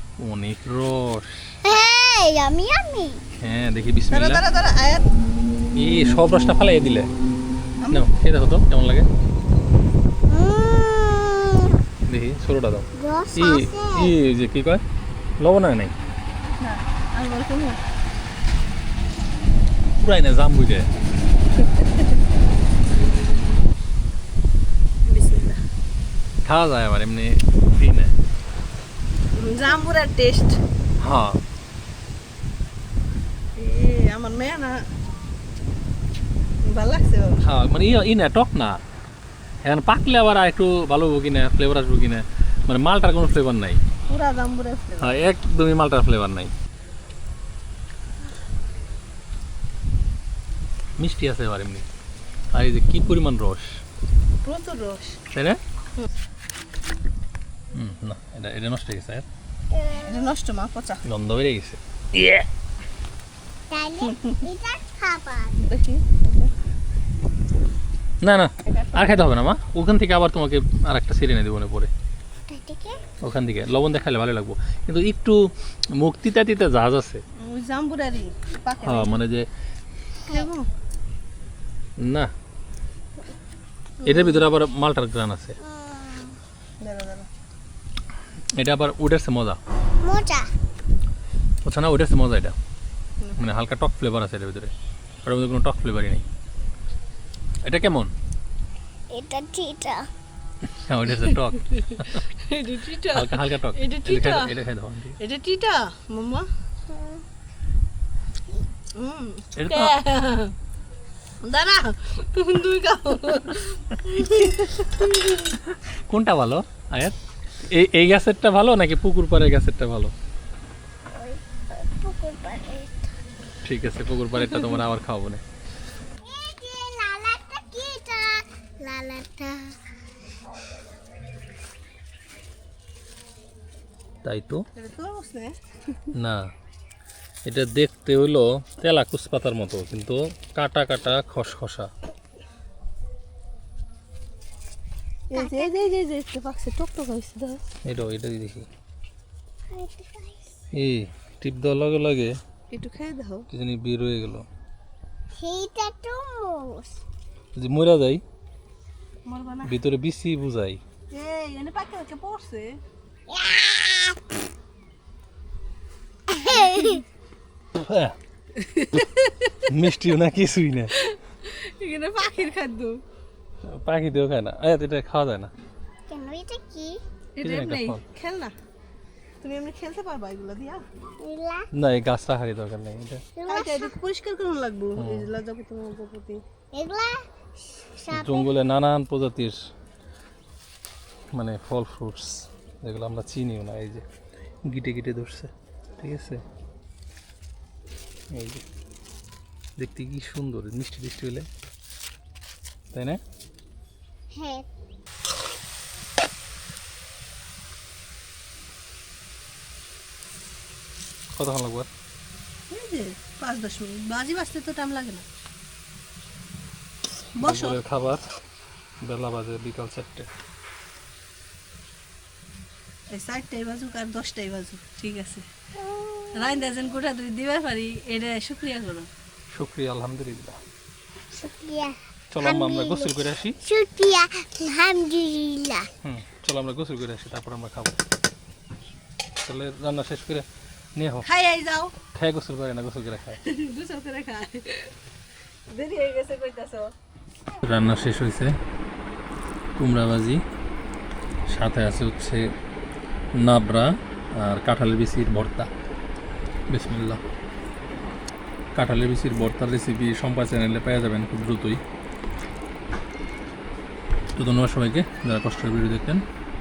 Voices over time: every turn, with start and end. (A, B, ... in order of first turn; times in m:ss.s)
0:00.2-0:01.6 A
0:01.6-0:03.2 B
0:03.4-0:04.4 A
0:04.1-0:05.1 C
0:05.7-0:07.1 A
0:07.8-0:08.1 C
0:07.9-0:09.1 A
0:10.3-0:11.8 B
0:12.1-0:14.8 A
0:12.9-0:14.2 B
0:15.4-0:15.9 A
0:16.6-0:17.8 C
0:20.0-0:20.9 A
0:21.6-0:22.1 C
0:22.9-0:23.4 C
0:25.0-0:25.6 C
0:26.4-0:28.1 A
0:29.4-0:30.6 C
0:31.0-0:31.4 A
0:33.6-0:34.8 C
0:36.6-0:37.5 C
0:37.4-0:38.8 A
0:39.6-0:43.8 A
0:44.1-0:45.2 C
0:45.0-0:46.5 A
0:51.0-0:51.9 A
0:52.5-0:53.8 A
0:54.4-0:55.2 C
0:55.3-0:55.6 A
0:57.7-0:59.2 A
0:59.7-1:00.4 B
1:00.0-1:01.0 C
1:01.0-1:02.5 A
1:03.7-1:05.6 B
1:04.1-1:04.4 C
1:05.6-1:06.5 C
1:08.2-1:11.9 A
1:08.7-1:09.2 C
1:12.5-1:13.0 B
1:13.2-1:15.4 A
1:15.9-1:17.2 A
1:17.4-1:19.2 C
1:18.8-1:19.5 A
1:20.3-1:20.7 C
1:22.0-1:22.3 A
1:24.0-1:24.4 C
1:24.0-1:25.6 A
1:25.6-1:26.4 B
1:26.8-1:27.3 C
1:28.6-1:29.6 A
1:30.0-1:30.5 B
1:31.6-1:32.6 A
1:33.4-1:34.7 A
1:35.2-1:36.2 A
1:37.6-1:38.1 A
1:39.1-1:40.1 B
1:40.7-1:42.2 A
1:42.0-1:44.5 C
1:43.1-1:45.2 A
1:45.2-1:46.5 C
1:46.9-1:47.2 B
1:49.0-1:50.5 C
1:49.6-1:50.0 A
1:51.4-1:55.5 C
1:55.7-2:00.1 A
2:01.1-2:03.1 B
2:03.6-2:05.4 A
2:06.2-2:09.8 B
2:14.2-2:14.6 A
2:14.8-2:16.0 C
2:16.1-2:16.5 A
2:17.4-2:21.9 A
2:25.3-2:27.6 C
2:25.3-2:25.9 B
2:27.8-2:28.7 A
2:29.7-2:30.4 B
2:30.7-2:32.4 A
2:32.7-2:33.5 C
2:33.5-2:34.5 A
2:35.3-2:37.0 B
2:37.6-2:38.2 A
2:39.3-2:39.7 C
2:39.6-2:40.8 A
2:41.1-2:42.8 C
2:43.3-2:44.2 B
2:46.3-2:47.0 B
2:46.5-2:47.0 C
2:47.7-2:48.2 A
2:48.6-2:49.6 C
2:49.6-2:51.0 A
2:51.0-2:53.0 C
2:53.6-2:55.5 A
2:56.1-2:57.0 B
2:57.4-2:58.6 C
2:57.4-2:58.0 A
2:59.4-3:00.8 C
3:01.2-3:01.7 B
3:01.7-3:03.2 A
3:03.4-3:03.9 B
3:03.5-3:06.4 C
3:05.0-3:05.3 A
3:06.7-3:08.5 B
3:08.1-3:09.6 A
3:11.3-3:14.0 A
3:14.7-3:16.4 A
3:18.3-3:18.6 A
3:19.8-3:21.5 A
3:22.9-3:23.2 A
3:24.3-3:24.7 B
3:31.4-3:31.9 A
3:32.7-3:35.2 C
3:37.4-3:37.8 C
3:37.4-3:38.2 A
3:39.0-3:40.3 A
3:43.1-3:45.4 C
3:45.8-3:46.6 B
3:46.3-3:49.1 C
3:49.5-3:50.6 A
3:51.4-3:55.9 B
3:52.3-3:53.6 A
3:56.0-3:58.0 A
3:59.4-4:01.3 A
4:01.2-4:01.9 C
4:02.1-4:03.4 A
4:03.4-4:04.9 C
4:05.7-4:06.9 C
4:07.6-4:08.6 A
4:09.8-4:10.4 A
4:11.5-4:12.5 A
4:13.4-4:15.7 A
4:16.7-4:17.2 A
4:18.8-4:21.8 A
4:24.4-4:26.2 A